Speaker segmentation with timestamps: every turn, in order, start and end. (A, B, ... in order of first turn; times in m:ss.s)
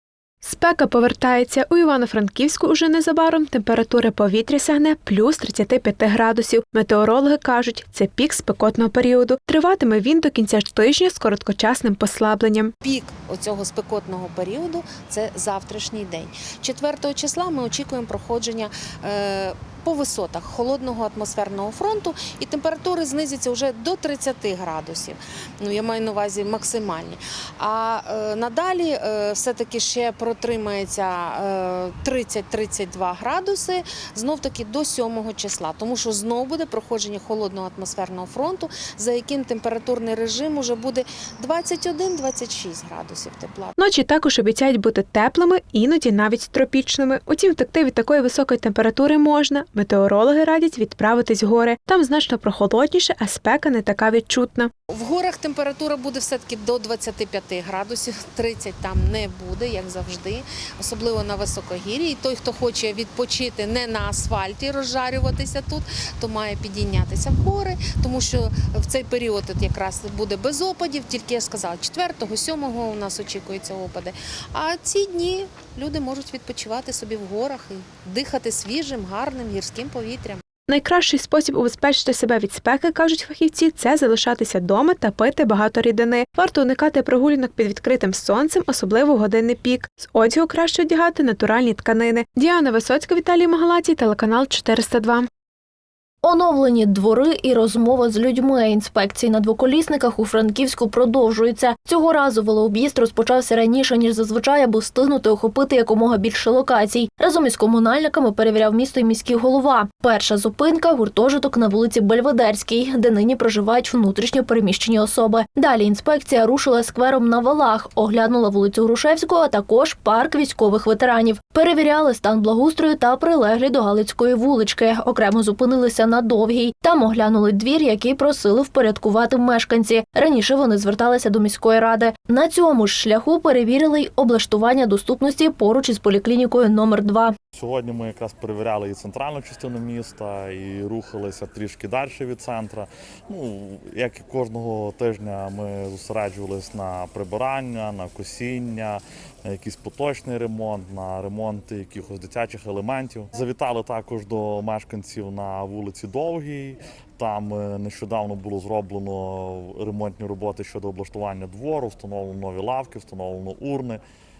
0:00.4-0:12.7 A
0:12.8-0:43.7 B
0:43.8-0:54.7 A
0:54.9-1:20.4 B
1:20.7-1:35.3 A
1:36.2-2:17.3 C
2:17.5-2:44.0 D